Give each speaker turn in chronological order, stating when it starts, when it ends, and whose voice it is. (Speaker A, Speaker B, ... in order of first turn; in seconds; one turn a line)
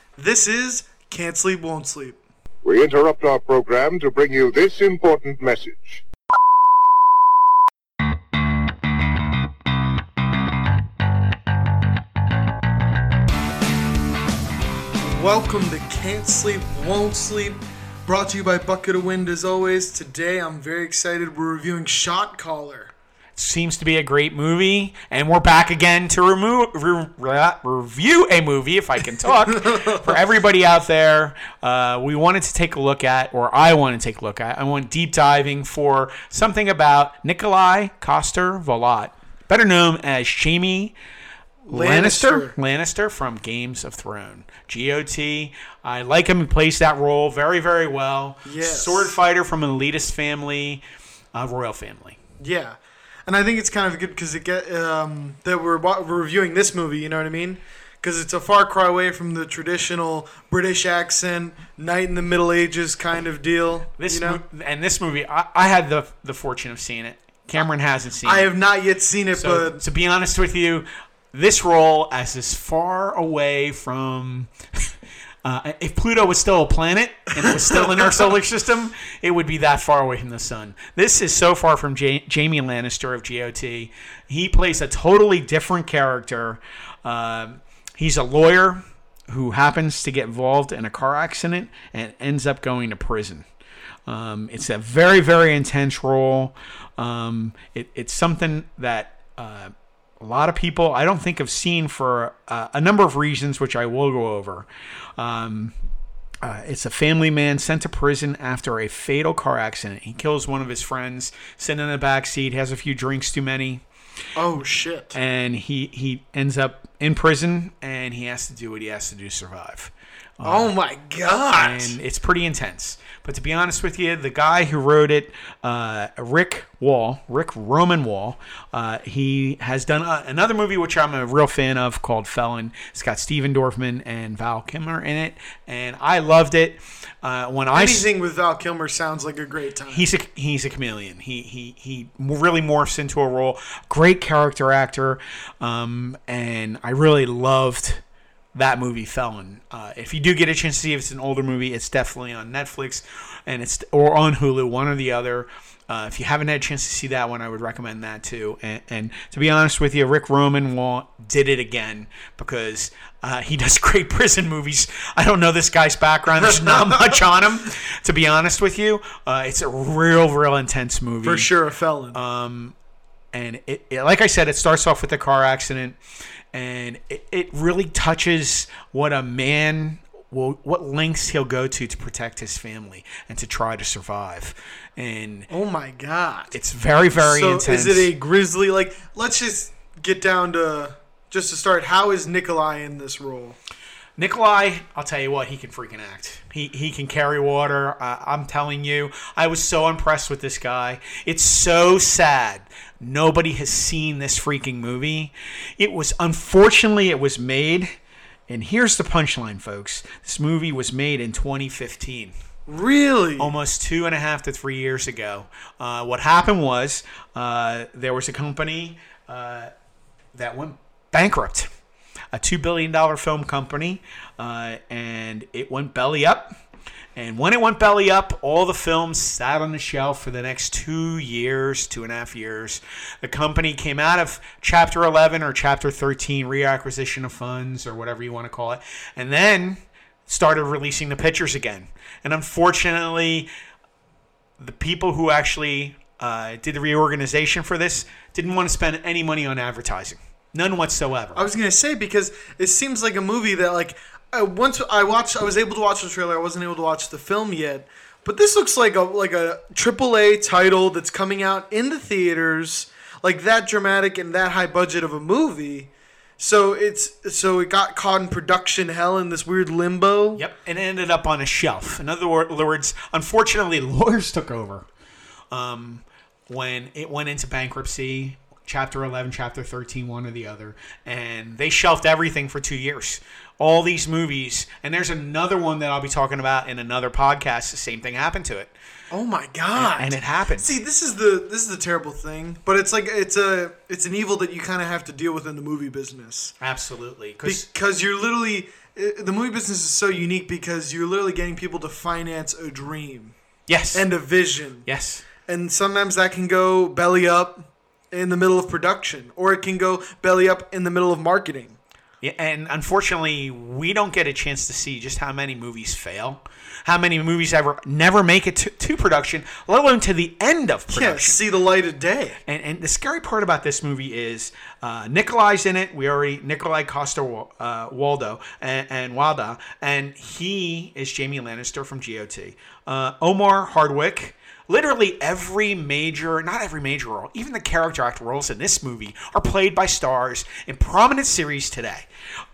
Speaker A: 0.2-2.2
Speaker B: 2.6-6.0
Speaker A: 15.0-22.9
Speaker C: 23.4-40.9
Speaker A: 41.6-42.5
Speaker C: 41.7-50.8
Speaker A: 48.5-49.1
Speaker C: 51.3-52.1
Speaker A: 52.4-64.4
Speaker C: 64.0-68.5
Speaker A: 68.2-69.8
Speaker C: 69.3-74.9
Speaker C: 75.4-93.4
Speaker C: 94.1-105.7
Speaker C: 106.4-113.8
Speaker A: 114.3-115.2
Speaker C: 115.1-120.7
Speaker A: 120.4-122.0
Speaker C: 121.5-138.1
Speaker A: 137.7-140.1
Speaker C: 139.9-148.0
Speaker C: 148.5-171.5
Speaker A: 171.2-172.2
Speaker C: 172.1-172.7
Speaker C: 173.3-176.0
Speaker C: 176.5-185.5
Speaker A: 185.5-186.5
Speaker C: 186.5-188.1
Speaker A: 187.1-193.6
Speaker C: 194.2-207.9
Speaker C: 208.5-212.3
Speaker A: 212.7-213.5
Speaker C: 213.4-219.7
Speaker C: 220.3-221.7
Speaker C: 222.3-226.5
Speaker C: 227.2-243.5
Speaker C: 244.6-251.4
Speaker A: 251.3-270.4
Speaker C: 270.3-274.9
Speaker C: 275.5-288.7
Speaker A: 289.1-296.5
Speaker C: 289.8-290.7
Speaker C: 296.6-297.6
Speaker A: 297.4-303.3
Speaker C: 303.7-304.1
Speaker A: 303.9-304.9
Speaker C: 304.8-305.2
Speaker A: 305.4-311.8
Speaker C: 312.2-321.4
Speaker A: 320.9-322.4
Speaker C: 322.5-342.1